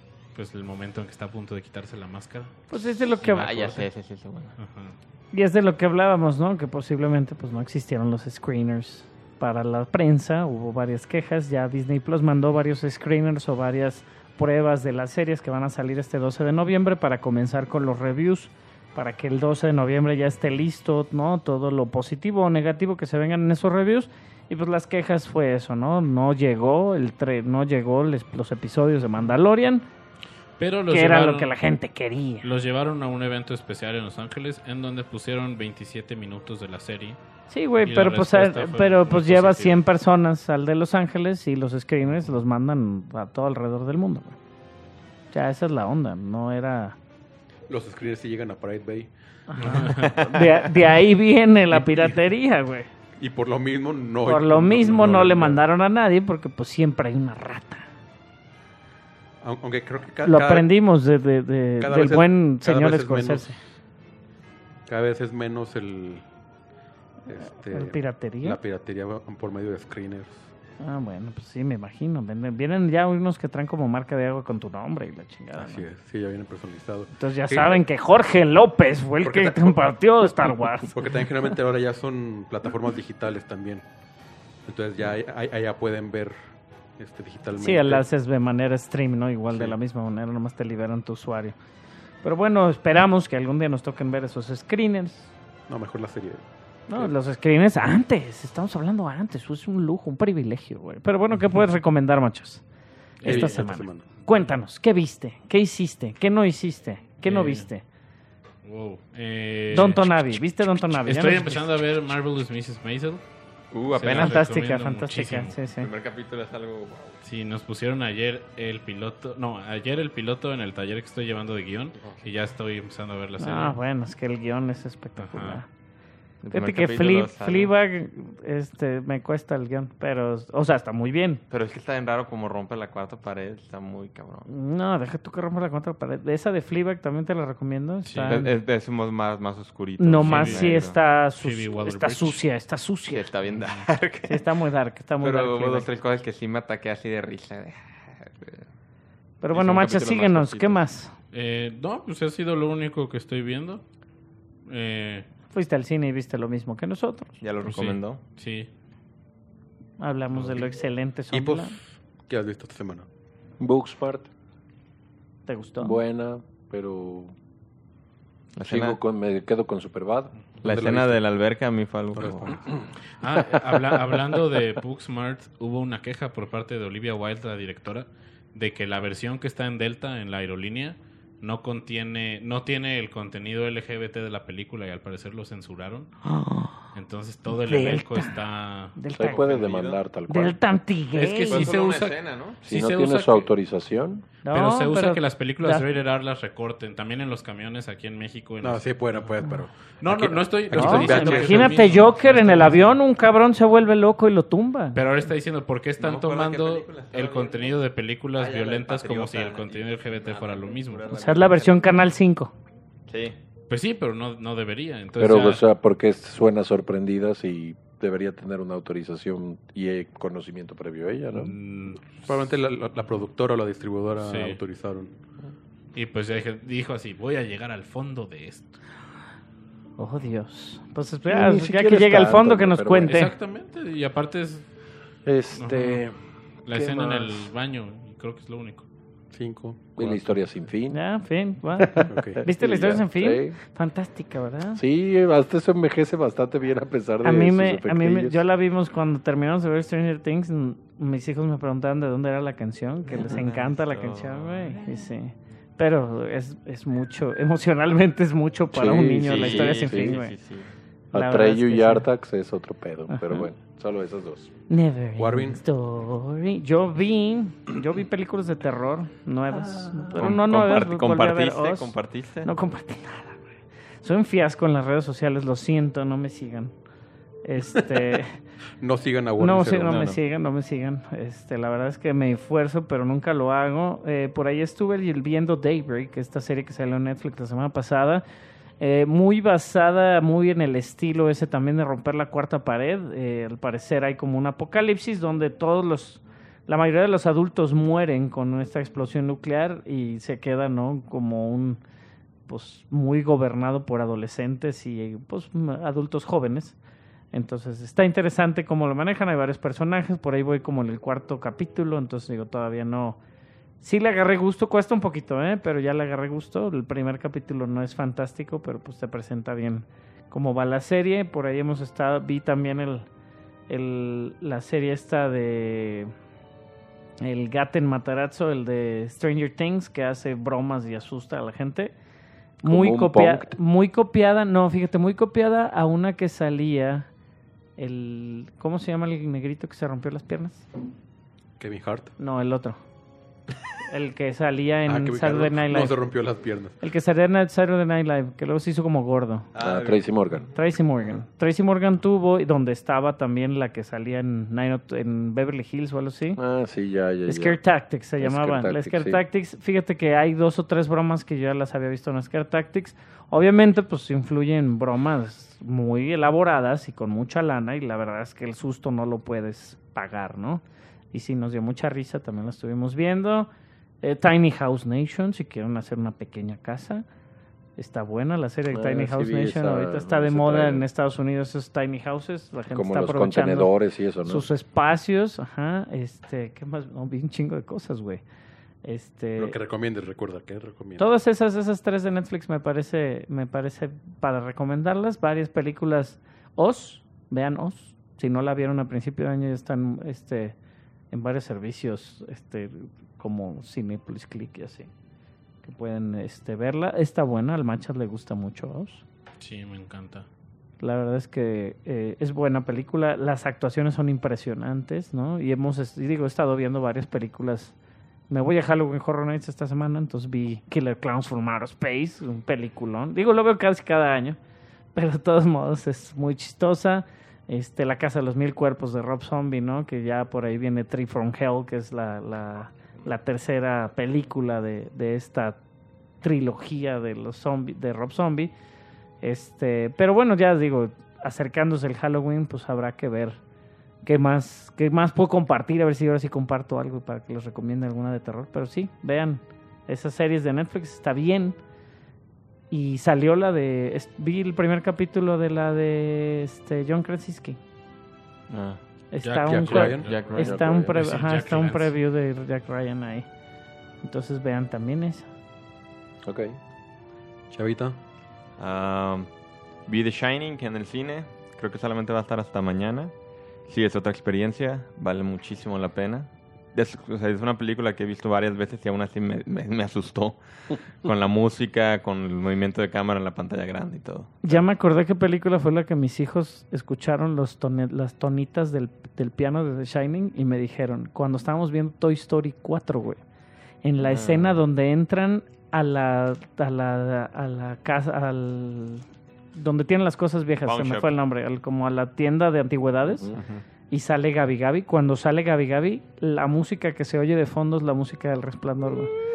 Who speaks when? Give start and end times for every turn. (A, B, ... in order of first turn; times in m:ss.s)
0:00.3-0:02.6 A
0:02.7-0:03.8 B
0:03.2-0:03.8 A
0:03.2-0:04.6 C
0:04.6-0:05.0 A
0:05.3-0:29.8 B
0:30.6-0:31.5 A
0:30.9-0:32.5 B
0:32.4-0:37.2 A
0:37.5-0:44.4 B
0:37.8-0:39.8 A
0:45.3-0:47.0 B
0:47.7-0:49.1 D
0:49.5-0:52.9 B
0:49.6-0:50.2 A
0:50.1-0:50.6 C
0:53.2-0:55.6 D
0:54.2-0:57.8 B
0:59.4-1:00.7 D
1:00.2-1:03.6 B
1:01.8-1:03.5 D
1:04.9-1:06.2 D
1:07.3-1:10.5 D
1:07.5-1:08.6 B
1:10.8-1:15.8 B
1:15.6-1:17.8 D
1:17.2-1:21.0 B
1:19.2-1:19.9 D
1:20.9-1:23.8 D
1:24.6-1:26.4 D
1:27.0-1:28.0 D
1:27.6-1:31.6 B
1:29.5-1:29.8 D
1:32.2-1:35.3 B
1:35.7-1:37.1 D
1:36.9-1:42.6 B
1:43.2-1:43.7 A
1:43.2-1:47.8 B
1:43.2-1:44.0 D
1:47.2-1:47.7 A
1:48.6-1:50.1 A
1:49.7-1:51.6 B
1:51.0-1:53.2 A
1:53.7-1:54.4 C
1:53.9-1:55.6 A
1:54.1-1:55.9 B
1:55.8-1:57.2 C
1:57.2-2:03.8 A
2:02.0-2:02.2 C
2:03.4-2:05.7 B
2:05.2-2:05.6 A
2:06.4-2:07.7 C
2:06.5-2:11.4 B
2:11.5-2:14.5 C
2:14.5-2:18.5 B
2:18.0-2:18.4 A
2:18.2-2:21.0 C
2:20.0-2:23.3 B
2:20.2-2:20.7 A
2:21.4-2:22.4 A
2:23.1-2:24.4 C
2:23.6-2:23.9 A
2:24.2-2:25.9 B
2:25.2-2:28.7 C
2:29.4-2:31.1 B
2:29.5-2:30.8 C
2:31.3-2:33.8 A
2:34.7-2:35.3 A
2:35.5-2:37.3 B
2:37.4-2:38.2 C
2:37.6-2:38.7 A
2:40.0-2:41.7 B
2:41.3-2:43.1 D
2:43.6-2:44.3 E
2:45.5-2:46.0 B
2:45.8-2:47.3 E
2:48.6-2:49.0 C
2:48.6-2:50.3 E
2:50.6-2:52.6 C
2:50.6-2:51.2 D
2:52.2-2:52.6 D
2:53.2-3:06.1 A
3:06.2-3:06.7 B
3:06.9-3:09.0 A
3:07.5-3:08.4 B
3:09.0-3:09.5 B
3:09.1-3:10.6 E
3:09.2-3:10.0 C
3:10.3-3:11.7 B
3:11.1-3:13.5 A
3:11.5-3:12.6 C
3:12.6-3:14.2 E
3:14.4-3:15.8 B
3:14.5-3:19.4 A
3:18.6-3:22.0 D
3:20.0-3:22.8 A
3:20.7-3:25.0 B
3:24.9-3:31.0 A
3:26.0-3:27.8 C
3:28.4-3:32.1 C
3:31.1-3:32.5 B
3:33.1-3:33.4 C
3:33.7-3:35.6 A
3:35.2-3:41.5 E
3:41.3-3:42.5 A
3:42.3-3:45.1 D
3:44.2-3:44.6 A
3:45.9-3:48.8 A
3:50.0-3:53.3 B
3:51.3-3:53.2 E
3:53.0-3:54.6 A
3:55.2-3:57.5 E
3:55.6-3:56.0 A
3:56.6-3:58.8 A
3:59.3-4:00.4 D
4:00.0-4:01.0 E
4:00.9-4:04.8 B
4:01.8-4:03.6 E
4:02.1-4:02.4 D
4:04.7-4:08.4 E
4:07.2-4:20.4 B
4:13.1-4:14.8 C
4:18.7-4:20.2 E
4:19.2-4:20.7 C
4:21.1-4:22.1 B
4:21.1-4:24.5 E
4:23.1-4:23.5 B
4:24.7-4:33.5 B
4:25.2-4:25.6 D
4:30.1-4:32.5 C
4:34.0-4:36.7 B
4:37.4-4:38.4 B
4:38.8-4:40.0 D
4:39.4-4:48.2 B
4:39.9-4:40.2 C
4:48.8-5:01.8 B
5:02.5-5:06.8 B
5:07.3-5:13.2 B
5:13.8-5:23.1 B
5:23.7-5:26.1 B
5:27.2-5:31.9 B
5:32.6-5:37.1 B
5:32.6-5:33.6 E
5:37.8-5:40.6 B
5:41.6-5:42.1 D
5:42.2-5:42.8 B
5:43.9-5:46.0 B
5:44.8-5:46.8 D
5:46.8-5:49.5 B
5:49.5-5:50.4 C
5:49.6-5:50.5 E
5:50.5-5:56.4 B
5:56.4-5:57.6 E
5:57.3-6:13.5 B
5:58.2-5:59.2 E
6:14.0-6:17.0 B
6:17.8-6:23.7 B
6:18.7-6:20.9 E
6:22.7-6:24.5 E
6:24.2-6:28.2 B
6:28.8-6:29.6 B
6:29.4-6:31.1 D
6:31.0-6:40.6 B
6:41.1-6:44.9 B
6:45.6-6:49.0 B
6:49.4-6:50.3 A
6:50.8-6:57.7 B
6:58.3-7:04.4 B
7:04.9-7:15.6 B
7:16.2-7:18.5 B
7:19.2-7:23.4 B
7:24.0-7:31.6 B
7:32.7-7:37.6 B
7:38.5-7:38.8 C
7:39.1-7:43.3 B
7:39.2-7:40.3 A
7:39.5-7:40.1 D
7:40.0-7:40.6 C
7:40.3-7:41.0 E
7:40.9-7:41.9 A
7:44.0-7:45.3 B
7:46.2-7:46.6 E
7:47.5-7:48.0 D
7:48.6-7:49.3 C
7:49.8-7:53.1 C
7:53.7-8:04.6 C
8:04.4-8:13.2 B
8:13.8-8:23.3 B
8:14.0-8:14.6 C
8:20.6-8:21.1 C
8:23.3-8:23.6 C
8:23.9-8:29.1 B